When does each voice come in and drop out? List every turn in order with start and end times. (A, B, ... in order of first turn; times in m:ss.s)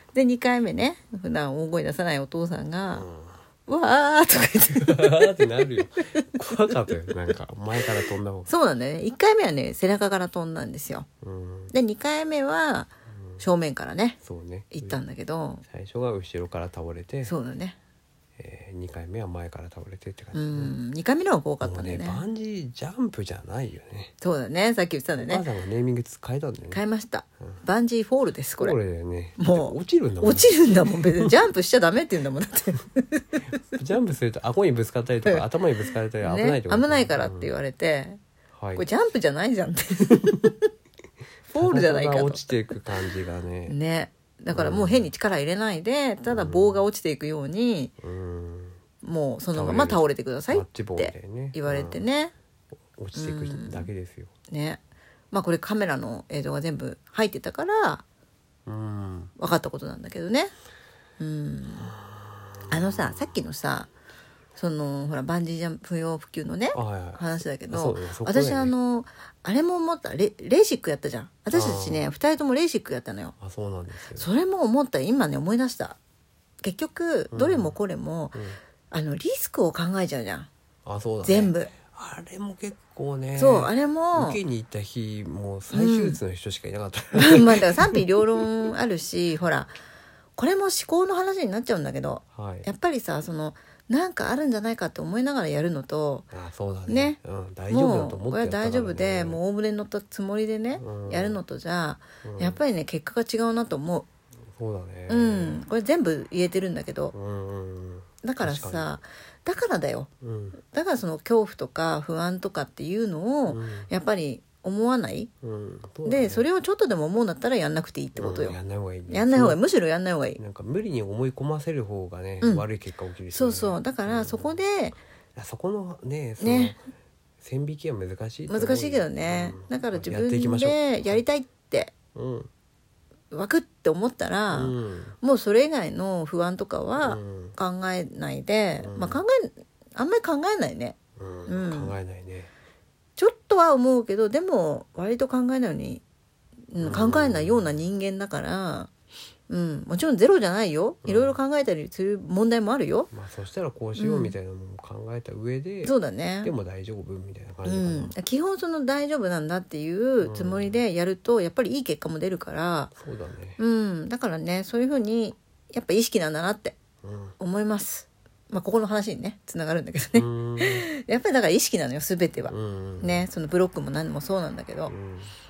0:00.1-0:03.1 A
0:02.9-0:03.4 B
0:03.6-0:05.6 A
0:04.8-0:08.5 B
0:08.5-0:11.1 A
0:11.2-0:11.7 B
0:11.7-0:14.2 A
0:13.1-0:13.4 B
0:14.2-0:15.0 B
0:14.7-0:15.6 A
0:15.6-0:17.3 B
0:17.2-0:17.8 A
0:18.4-0:20.8 B
0:20.3-0:22.2 A
0:21.6-0:24.1 B
0:24.2-0:25.4 A
0:25.2-0:26.8 B
0:26.7-0:28.8 A
0:28.6-0:31.4 B
0:29.4-0:33.4 A
0:33.7-0:37.5 B
0:36.2-0:38.2 A
0:38.6-0:38.9 B
0:38.8-0:40.6 A
0:41.5-0:42.5 A
0:41.5-0:43.8 B
0:43.7-0:47.9 A
0:44.5-0:45.1 B
0:46.3-0:46.9 B
0:48.0-0:48.8 B
0:49.0-0:52.3 A
0:49.5-0:52.1 B
0:52.9-0:54.3 B
0:53.1-0:53.9 A
0:54.5-0:54.8 A
0:55.3-0:58.0 A
0:58.6-0:59.3 B
0:59.4-1:00.5 A
1:01.2-1:01.9 A
1:01.8-1:03.3 B
1:02.7-1:03.9 A
1:04.6-1:13.3 A
1:06.7-1:08.7 B
1:11.5-1:12.1 B
1:13.4-1:14.3 B
1:14.2-1:16.0 A
1:16.6-1:20.5 A
1:17.3-1:17.8 B
1:18.3-1:18.6 B
1:20.8-1:28.0 B
1:21.2-1:21.7 A
1:23.4-1:24.4 A
1:25.7-1:26.2 A
1:27.1-1:29.7 A
1:30.4-1:36.3 A
1:32.3-1:32.7 B
1:36.3-1:39.4 B
1:36.9-1:37.2 A
1:37.7-1:44.1 A
1:40.8-1:41.4 B
1:42.2-1:42.6 B
1:44.5-1:45.6 B
1:45.1-1:47.1 A
1:47.1-1:48.9 B
1:48.2-1:50.1 A
1:50.2-1:50.6 B
1:50.6-1:55.3 A
1:53.5-1:53.9 B
1:55.4-1:56.4 B
1:56.0-1:58.6 A
1:58.2-1:59.6 B
1:59.1-2:00.4 A
2:00.4-2:04.6 B
2:02.4-2:02.6 A
2:03.3-2:05.0 A
2:05.3-2:06.8 B
2:06.4-2:06.8 A
2:07.4-2:11.2 B
2:08.5-2:11.9 A
2:12.1-2:12.5 B
2:13.3-2:21.0 A
2:14.5-2:15.2 B
2:17.0-2:17.6 B
2:18.8-2:19.2 B
2:21.2-2:22.5 B
2:21.5-2:22.0 A
2:23.2-2:26.0 A
2:26.7-2:28.9 A
2:26.8-2:27.8 B
2:29.5-2:33.1 A
2:31.0-2:31.4 B
2:33.1-2:38.2 B
2:34.0-2:34.3 A
2:35.8-2:36.5 A
2:37.6-2:42.9 A
2:40.2-2:40.8 B
2:43.0-2:43.6 B
2:43.6-2:46.8 A
2:47.0-2:47.4 B
2:47.4-2:54.9 A
2:50.2-2:50.9 B
2:52.5-2:53.3 B
2:54.9-2:55.3 B